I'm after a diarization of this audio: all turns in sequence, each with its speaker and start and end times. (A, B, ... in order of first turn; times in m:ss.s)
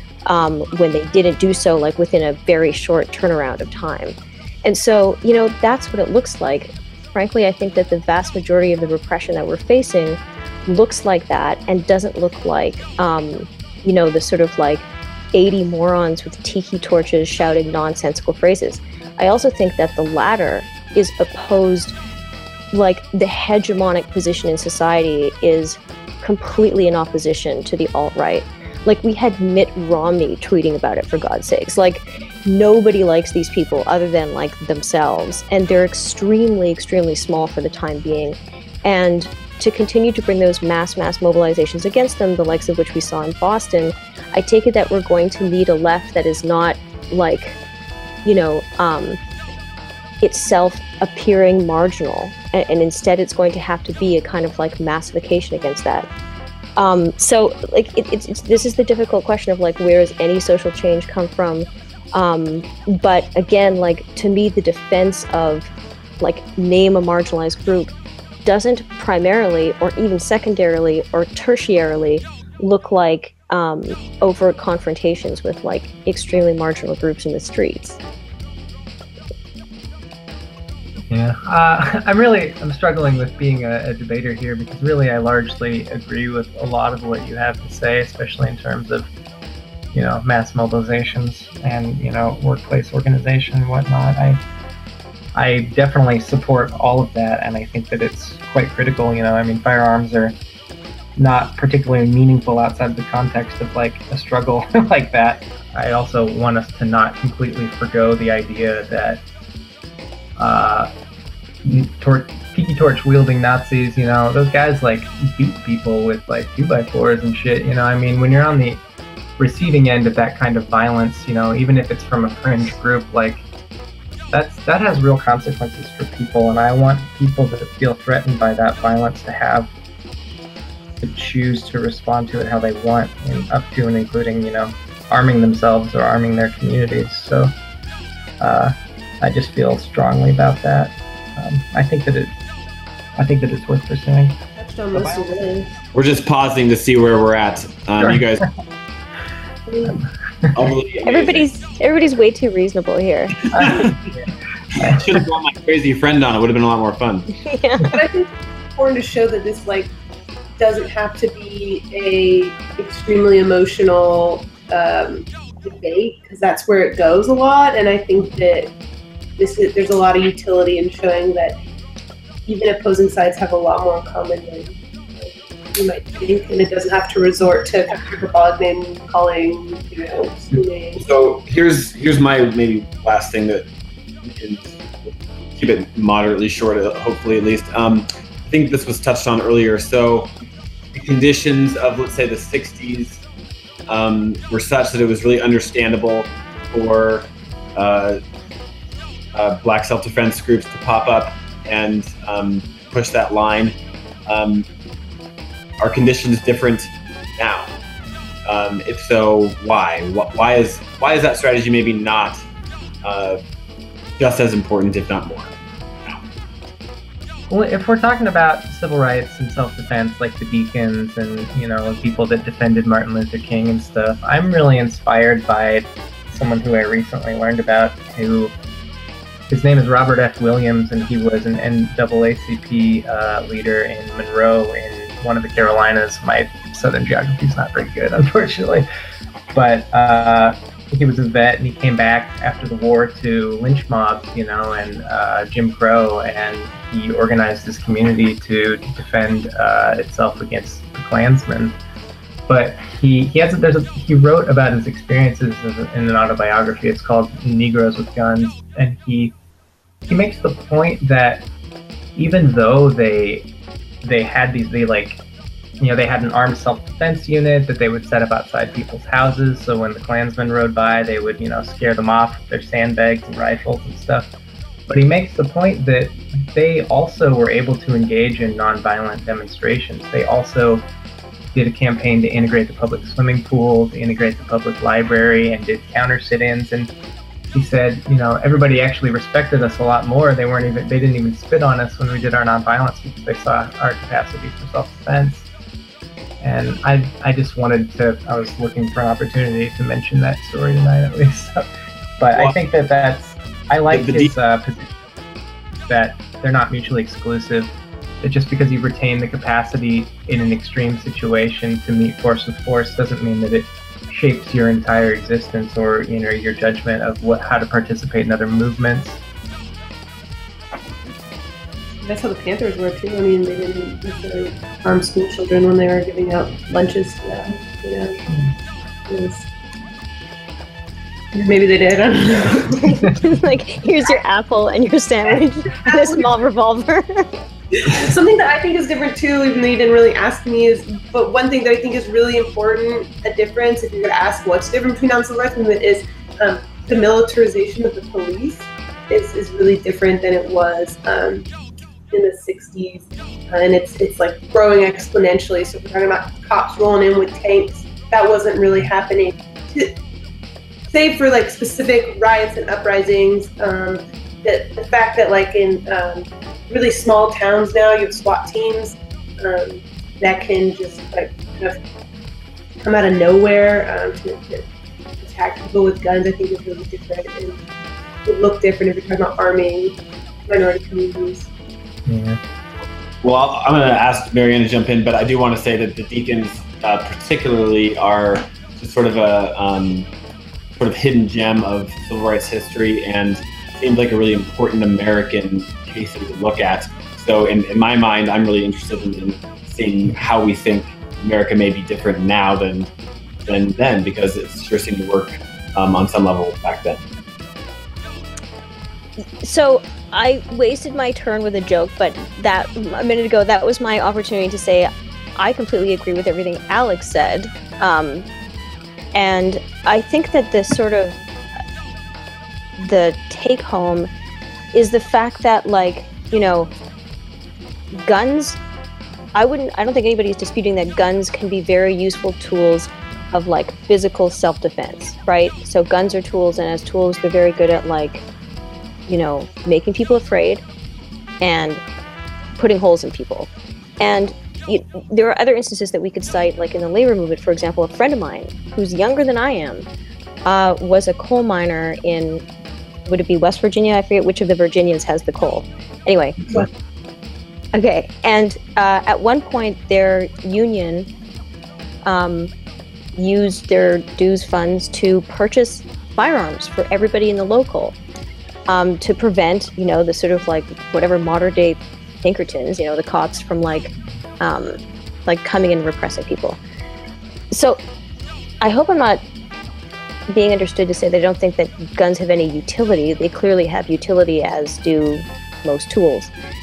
0:00.3-0:22.0 A
0:22.7-0:47.6 A
0:48.2-0:49.2 A
0:50.2-0:56.1 A
0:56.8-1:05.7 A
1:06.2-1:07.9 A
1:08.4-1:18.0 A
1:21.1-1:29.1 B
1:29.9-1:34.4 B
1:35.4-1:40.4 B
1:41.2-1:49.2 B
1:50.4-1:50.9 B
1:51.6-1:58.8 B
1:59.4-2:03.4 B
2:04.3-2:09.7 B
2:11.0-2:17.5 B
2:18.4-2:22.3 B
2:23.2-2:24.4 B
2:24.6-2:25.7 C
2:24.9-2:25.7 B
2:25.9-2:28.5 D
2:29.7-2:30.0 C
2:30.5-2:31.5 D
2:31.1-2:33.4 A
2:33.5-2:34.0 D
2:33.6-2:33.9 B
2:34.7-2:37.4 D
2:34.8-2:35.0 B
2:37.4-2:38.0 A
2:37.8-2:39.9 C
2:40.6-2:48.7 C
2:49.4-2:51.6 C
2:52.5-3:01.0 C
3:01.0-3:03.7 D
3:04.2-3:10.3 D
3:10.9-3:13.2 D
3:13.9-3:18.2 D
3:19.3-3:24.7 D
3:25.8-3:27.7 D
3:28.5-3:32.4 D
3:33.0-3:33.4 D
3:34.2-3:36.2 D
3:37.5-3:48.5 B
3:49.5-3:58.9 B
3:59.5-4:11.8 B
4:12.5-4:19.3 B
4:20.1-4:21.4 B
4:22.2-4:23.5 B
4:24.0-4:25.2 B
4:25.8-4:34.3 B
4:34.9-4:40.9 B
4:41.5-4:46.9 B
4:47.5-4:55.5 B
4:56.4-5:01.6 B
5:02.2-5:05.1 B
5:03.9-5:04.3 D
5:05.9-5:19.2 B
5:22.0-5:28.5 C
5:29.1-5:29.5 C
5:31.3-5:33.2 C
5:32.8-5:37.4 A
5:35.8-5:36.3 C
5:37.7-5:51.5 C
5:52.1-6:00.0 C
6:00.9-6:11.8 C
6:12.8-6:14.7 C
6:15.2-6:17.6 C
6:18.2-6:21.5 C
6:22.1-6:22.4 B
6:23.2-6:30.1 D
6:30.8-6:42.9 D
6:43.5-6:47.0 D
6:49.4-6:58.3 A
6:59.2-7:01.2 A
7:02.8-7:04.1 A
7:04.7-7:06.7 A
7:08.0-7:08.6 A
7:09.4-7:18.2 A
7:19.1-7:20.6 A
7:21.4-7:21.8 A
7:22.6-7:29.9 A
7:30.4-7:32.4 A
7:33.1-7:36.7 A
7:37.7-7:41.1 A
7:42.0-7:42.5 A
7:43.2-7:48.0 A
7:48.7-7:56.6 A
7:57.5-7:57.8 A
7:58.6-7:59.2 A
8:00.3-8:06.3 A